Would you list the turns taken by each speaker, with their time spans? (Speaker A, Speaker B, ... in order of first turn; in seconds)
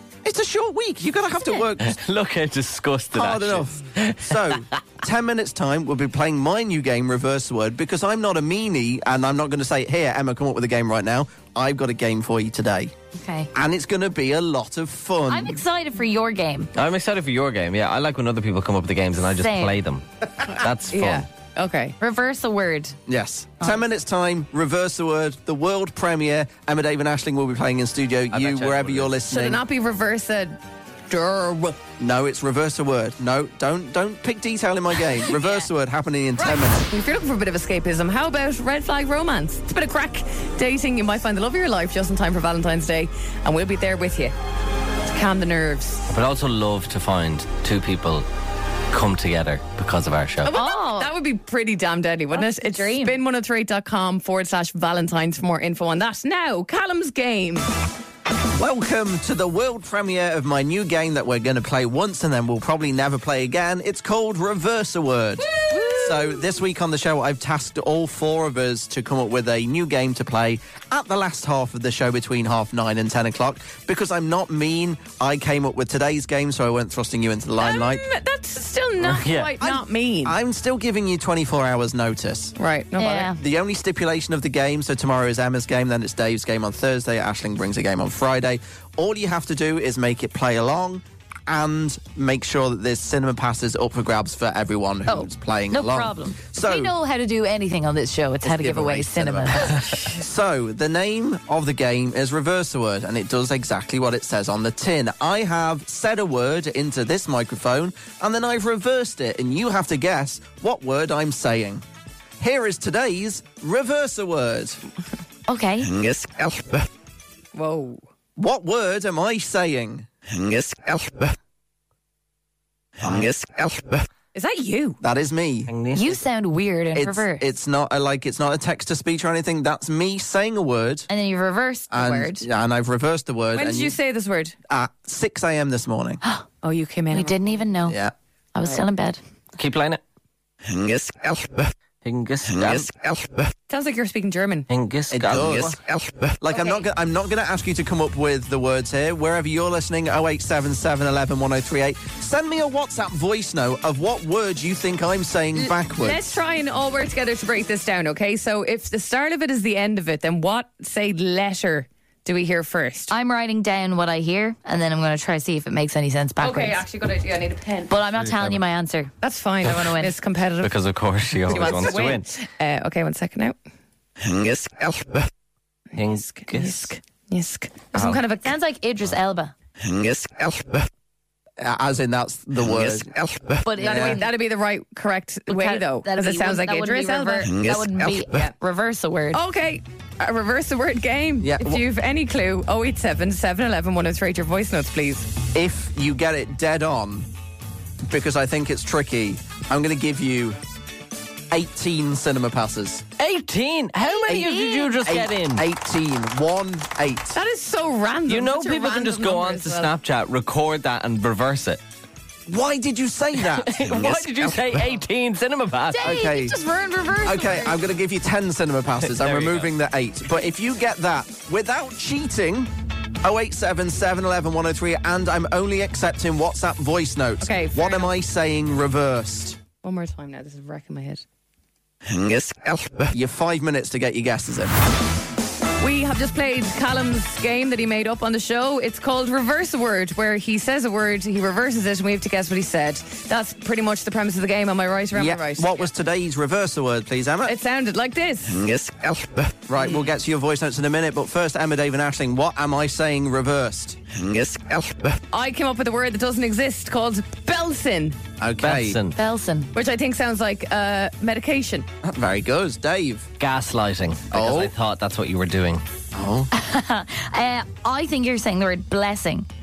Speaker A: 0.2-1.9, 3.2-12.9, 13.5-15.6, 23.1-29.6, 32.0-36.9, 58.6-78.0, 79.6-82.5, 83.3-96.9, 98.4-111.8, 112.4-114.8, 118.4-120.1, 123.0-123.7, 125.0-125.7, 127.0-131.1, 131.9-133.9, 134.7-136.2, 137.9-138.1, 142.8-143.2, 145.1-156.4, 181.6-184.2, 191.4-191.8, 195.5-197.3, 198.1-200.6, 201.5-203.1, 204.3-207.4, 212.5-214.7, 216.0-216.6, 217.2-222.7, 223.2-229.6, 233.1-234.7, 245.1-247.6, 248.8-254.9, 258.4-259.0, 262.0-263.3, 264.3-264.7, 266.1-266.5
Speaker B: 1.8-4.6, 16.8-21.3, 28.3-29.1, 46.1-48.3, 48.9-50.5, 79.0-79.5, 125.7-126.2, 139.6-140.0, 142.0-142.9, 144.7-145.8, 168.2-168.6, 170.6-172.3, 175.9-176.9, 177.9-178.2, 203.2-205.7, 208.3-211.8, 213.4-216.1, 219.0-219.7, 258.6-259.2, 263.4-265.8
Speaker C: 13.2-13.5, 15.3-16.7, 19.4-19.8, 22.0-23.0, 35.3-35.7, 50.5-51.1, 52.3-53.2, 83.0-83.4, 95.1-100.0, 115.5-115.9, 125.9-127.4, 131.1-132.4, 137.1-138.0, 138.6-139.2, 146.5-146.8, 163.1-166.8, 167.9-169.1, 169.6-170.1, 178.4-179.5, 183.6-184.3, 185.5-189.4, 204.0-205.1, 215.9-217.8, 259.1-259.7, 266.5-269.5
Speaker D: 20.6-21.9, 29.3-30.6, 31.1-31.8, 36.4-44.3, 45.1-46.1, 50.4-57.7, 65.6-66.4, 77.6-80.4, 82.6-83.3, 117.5-118.0, 124.3-125.0, 133.5-134.6, 136.6-137.6, 143.7-144.7, 155.6-163.1, 166.4-167.9, 169.2-170.8, 171.3-173.6, 175.9-178.5, 183.8-187.7, 189.3-195.3, 207.3-209.9, 227.4-228.1, 229.8-231.2, 235.8-245.9, 247.4-248.7, 249.8-250.1, 255.3-258.2, 259.7-261.9